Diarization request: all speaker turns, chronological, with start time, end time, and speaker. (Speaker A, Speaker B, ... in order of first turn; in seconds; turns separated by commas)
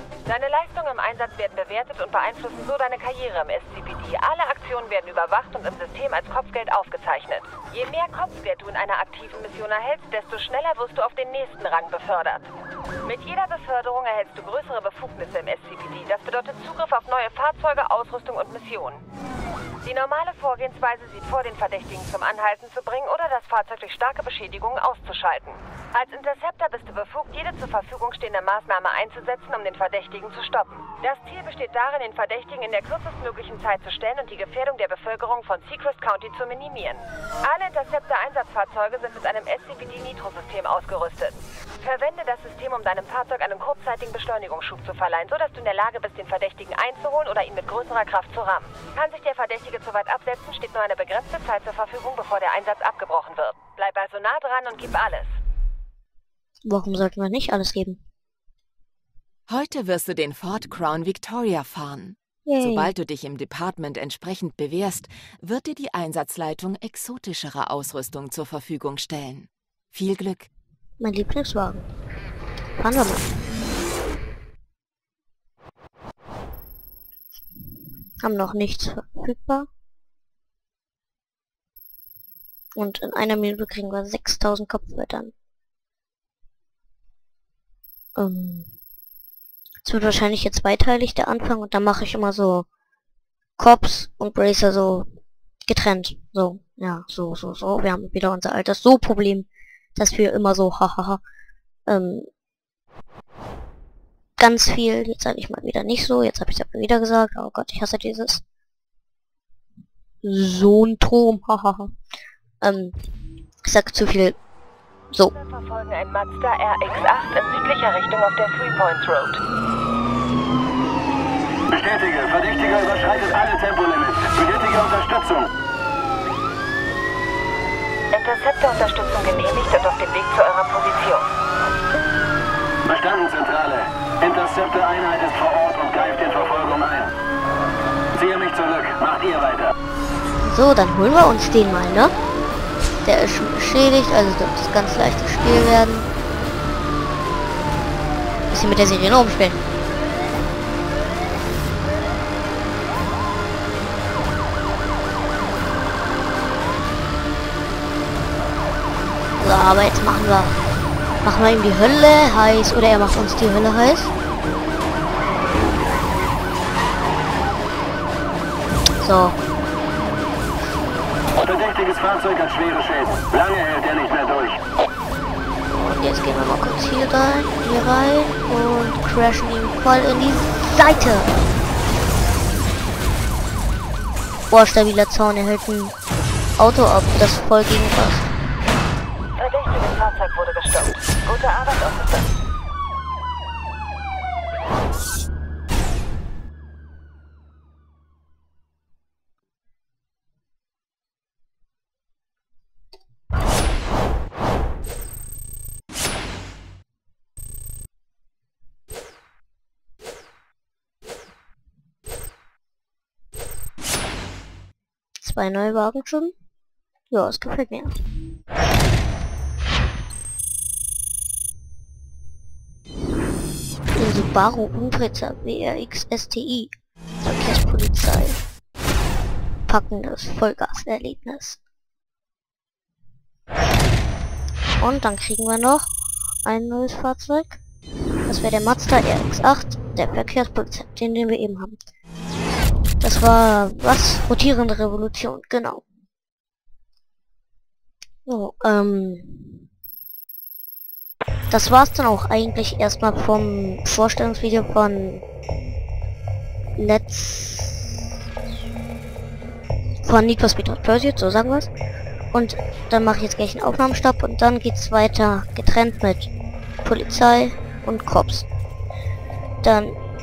Speaker A: 0.3-12.5, Speaker A: 13.0-19.0, Speaker A: 19.8-55.4, Speaker B: 56.7-58.0, Speaker C: 59.5-70.5, Speaker B: 62.5-62.9, Speaker B: 71.0-71.9, Speaker B: 72.8-73.3, Speaker B: 78.2-79.7, Speaker B: 82.8-85.3, Speaker B: 88.2-88.7, Speaker B: 89.8-92.7, Speaker B: 93.6-95.1, Speaker B: 95.7-101.2, Speaker B: 101.9-102.3, Speaker B: 104.4-108.4, Speaker B: 110.2-111.9, Speaker B: 112.6-113.0, Speaker B: 113.7-114.4, Speaker A: 115.3-119.4, Speaker D: 121.7-125.5, Speaker A: 128.1-131.3, Speaker D: 132.8-137.1, Speaker D: 138.2-139.7, Speaker B: 140.4-142.1, Speaker B: 143.1-146.1, Speaker B: 148.5-149.6, Speaker B: 159.4-160.6, Speaker B: 161.2-164.1, Speaker B: 169.0-169.4, Speaker D: 171.4-174.6, Speaker B: 175.7-181.4, Speaker B: 184.5-185.9, Speaker B: 186.6-188.3, Speaker A: 189.4-192.3, Speaker B: 215.2-216.3, Speaker B: 217.1-217.9, Speaker B: 224.0-228.4, Speaker B: 229.7-231.6, Speaker B: 234.8-235.9, Speaker B: 236.4-237.6, Speaker B: 238.3-241.8, Speaker B: 243.0-245.8, Speaker B: 248.3-249.7, Speaker B: 251.5-255.2, Speaker B: 256.8-258.0, Speaker B: 260.0-261.7, Speaker B: 262.3-266.3, Speaker B: 266.8-268.5, Speaker B: 269.6-269.9